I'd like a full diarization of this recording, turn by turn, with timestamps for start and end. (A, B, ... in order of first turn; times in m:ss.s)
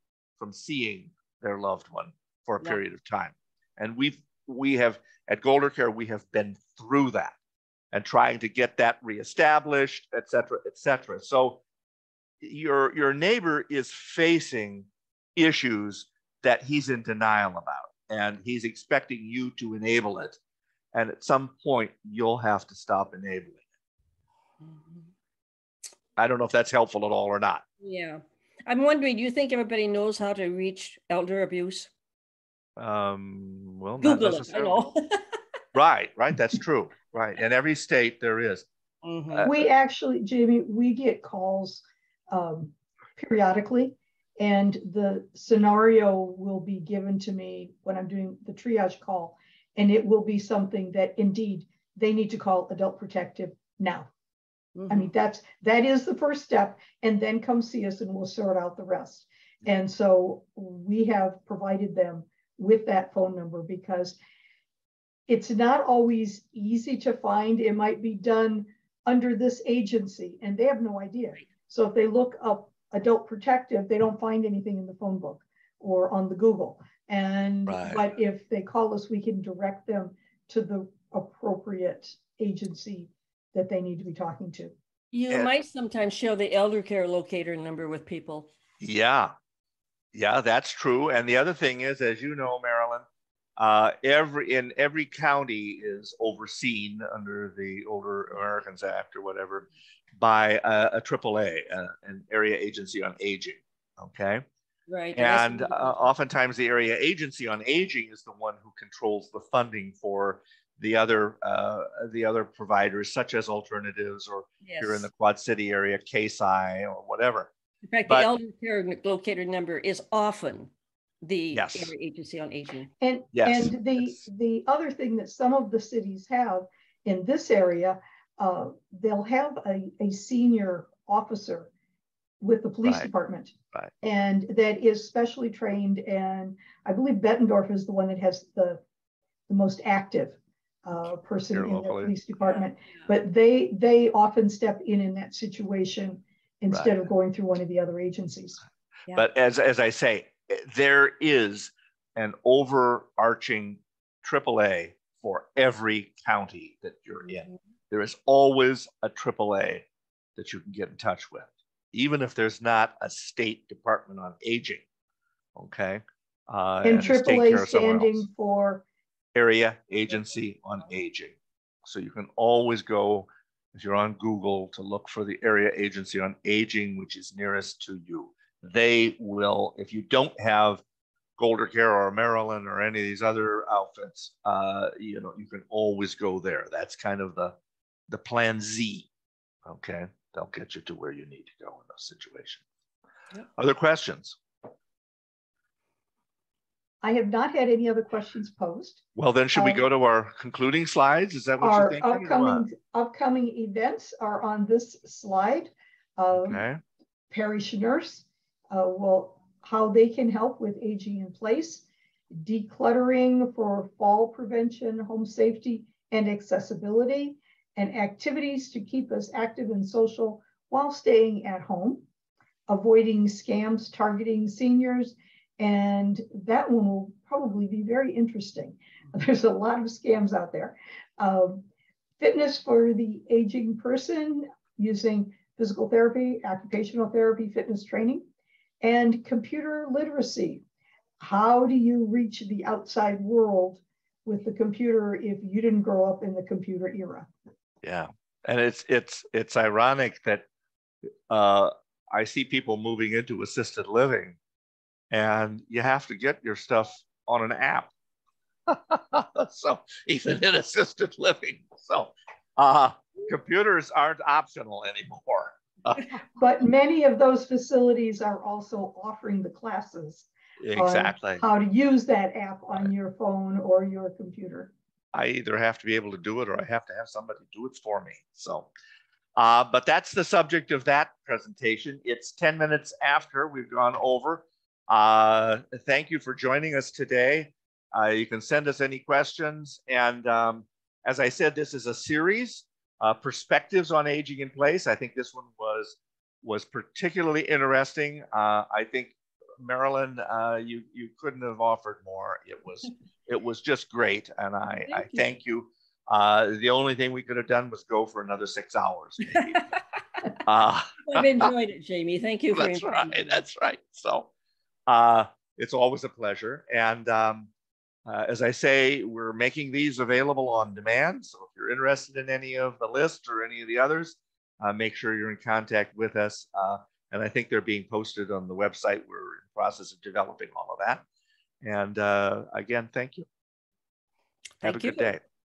0:00.4-0:07.4 A
0:07.9-0:11.6 A
0:12.4-0:20.4 A
0:20.9-0:23.6 A
0:24.6-0:25.0 B
0:26.2-0:27.6 A
0:27.8-0:31.9 B
0:32.8-0:34.9 A
0:34.0-0:35.2 B
0:35.7-0:38.7 A
0:39.0-0:39.5 B
0:39.3-0:39.6 A
0:39.4-0:54.1 C
0:54.8-0:55.1 B
0:54.9-1:04.2 C
1:05.3-1:24.8 C
1:17.7-1:18.0 A
1:25.1-1:28.5 B
1:28.8-1:29.3 A
1:30.1-1:33.0 A
1:33.6-1:44.4 A
1:44.9-1:46.0 B
1:45.2-1:57.5 A
1:54.6-1:55.1 B
1:57.9-2:00.7 B
2:01.2-2:02.9 B
2:01.5-2:01.9 A
2:03.0-2:11.7 C
2:03.3-2:04.1 A
2:12.4-2:18.8 C
2:12.8-2:13.1 A
2:19.5-2:28.6 C
2:21.5-2:22.1 A
2:26.7-2:27.0 A
2:29.2-2:39.9 A
2:40.4-2:44.8 A
2:45.6-2:48.3 A
2:46.8-2:48.8 C
2:49.4-3:00.8 A
3:01.4-3:07.6 A
3:08.1-3:09.1 A
3:09.6-3:12.6 A
3:13.6-3:14.4 A
3:17.0-3:19.0 C
3:19.2-3:22.6 A
3:19.6-3:19.9 C
3:21.6-3:26.6 C
3:26.4-3:26.8 A
3:27.3-3:42.1 C
3:42.7-3:51.6 C
3:52.2-3:58.2 C
3:58.8-4:00.6 C
4:01.2-4:07.3 C
4:07.8-4:10.4 A
4:11.3-4:14.4 A
4:15.1-4:17.9 A
4:18.7-4:26.1 A
4:26.4-4:34.7 C
4:30.6-4:31.4 A
4:35.1-4:38.7 A
4:39.4-5:09.6 A
5:04.9-5:05.3 B
5:09.3-5:09.6 B
5:10.4-5:11.5 A
5:11.1-5:13.2 B
5:12.5-5:14.3 A
5:14.9-5:17.5 A
5:18.1-5:31.0 A
5:31.6-5:33.3 A
5:34.6-5:35.1 B
5:34.6-5:35.2 A